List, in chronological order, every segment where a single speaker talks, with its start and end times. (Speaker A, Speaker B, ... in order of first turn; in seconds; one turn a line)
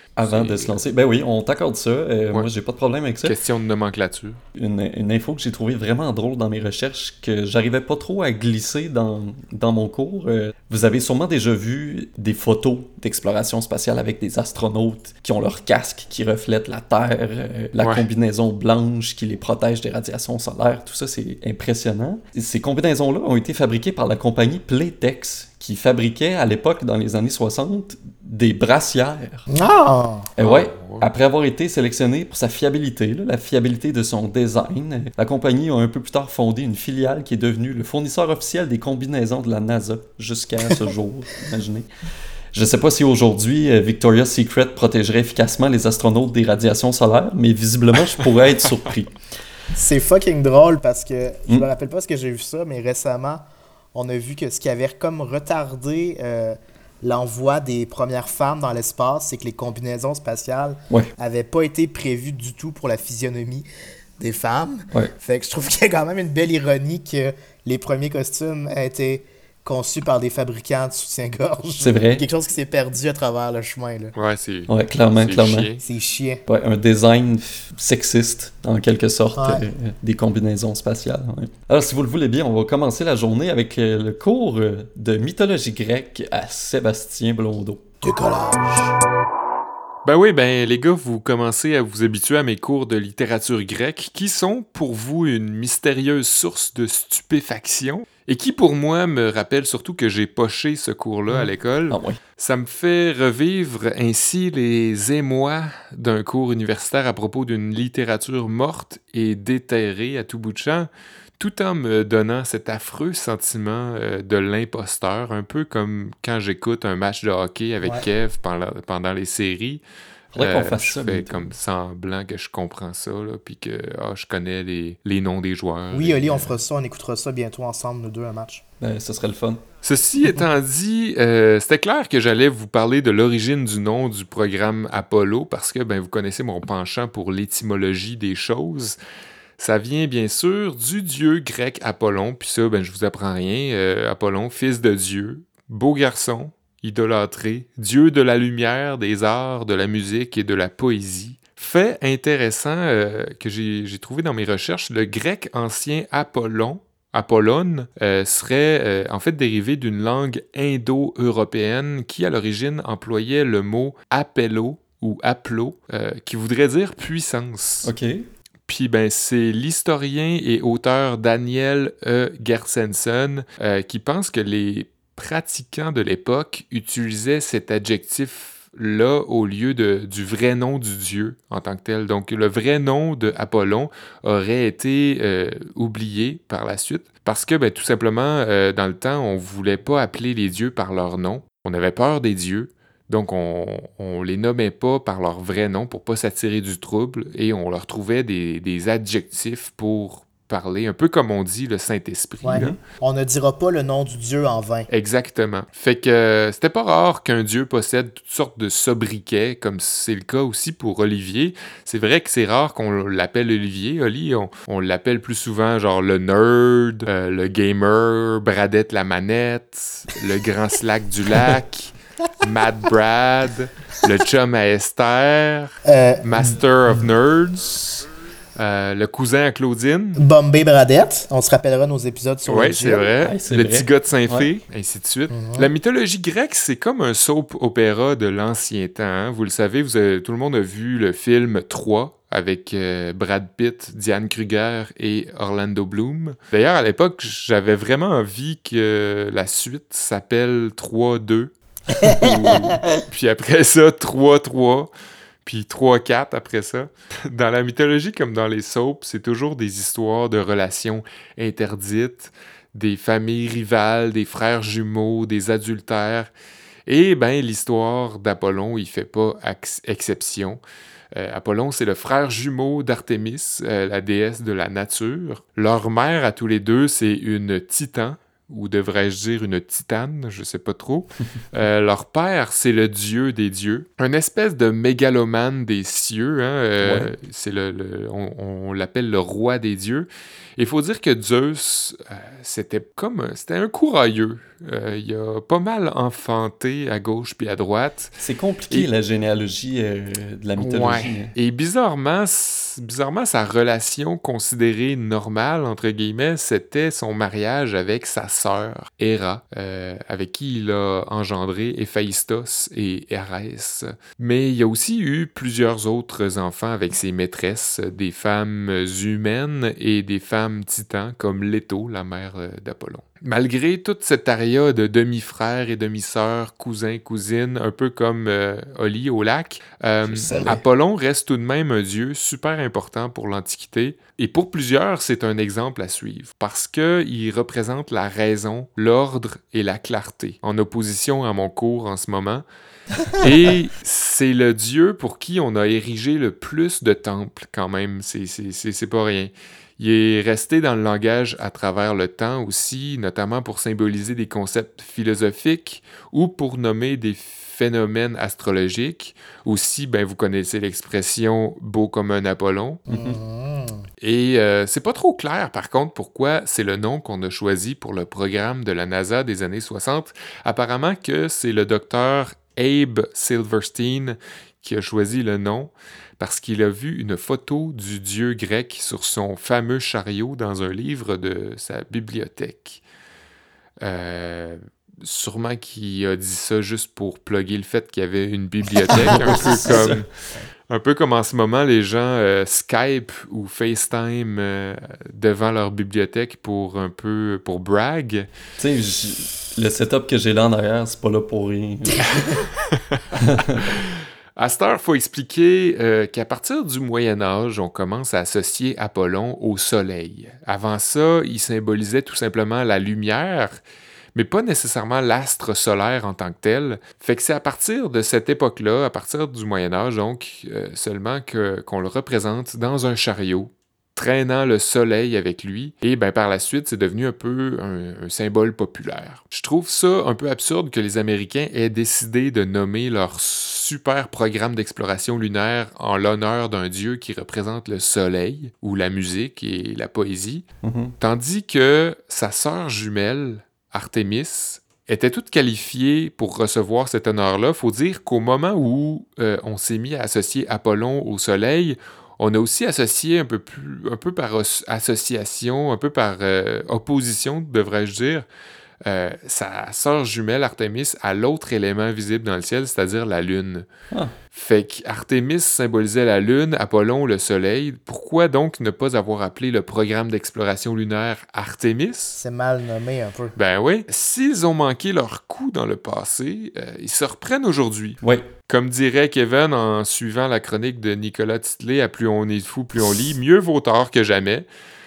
Speaker A: 0.2-3.4
Speaker B: 0.2-0.8
Speaker B: 3.2-4.4
Speaker A: 4.5-29.5
Speaker C: 29.5-30.3
Speaker A: 30.4-41.9
Speaker B: 30.4-31.0
Speaker A: 42.5-49.1
Speaker C: 49.7-63.7
Speaker C: 64.2-74.1
Speaker A: 71.8-72.2
Speaker B: 74.2-75.8
Speaker A: 74.7-75.7
Speaker C: 75.8-76.4
Speaker A: 76.5-87.8
Speaker C: 79.3-79.7
Speaker C: 88.0-88.9
Speaker B: 90.0-119.8
Speaker A: 101.9-102.2
Speaker A: 120.3-121.5
Speaker B: 120.3-126.6
Speaker C: 125.9-128.6
Speaker A: 128.8-129.6
Speaker B: 129.8-139.0
Speaker B: 139.6-167.9
Speaker A: 167.8-168.2
Speaker B: 168.7-202.8
Speaker C: 202.4-204.9
Speaker B: 204.9-228.0
Speaker C: 225.8-227.0
Speaker B: 228.6-230.2
Speaker C: 230.2-233.1
Speaker B: 232.5-254.9
Speaker A: 233.2-234.5
Speaker C: 235.3-235.7
Speaker C: 252.0-252.8
Speaker B: 255.4-266.3
Speaker B: 266.9-270.6
Speaker B: 271.1-298.1
Speaker A: 286.8-287.1
Speaker A: 298.2-301.3
Speaker B: 300.6-342.4
Speaker A: 330.1-330.6
Speaker B: 343.1-362.8
Speaker C: 362.9-363.8
Speaker A: 362.9-363.2
Speaker B: 364.0-382.8
Speaker B: 383.8-390.1
Speaker A: 389.0-390.0
Speaker B: 390.7-398.3
Speaker A: 398.6-402.4
Speaker A: 403.2-403.6
Speaker B: 404.4-413.6
Speaker B: 414.1-440.4
Speaker A: 440.6-440.9
Speaker B: 441.0-458.2
Speaker B: 458.8-463.6
Speaker B: 464.3-472.2
Speaker C: 472.1-473.3
Speaker B: 473.4-484.4
Speaker A: 478.0-478.3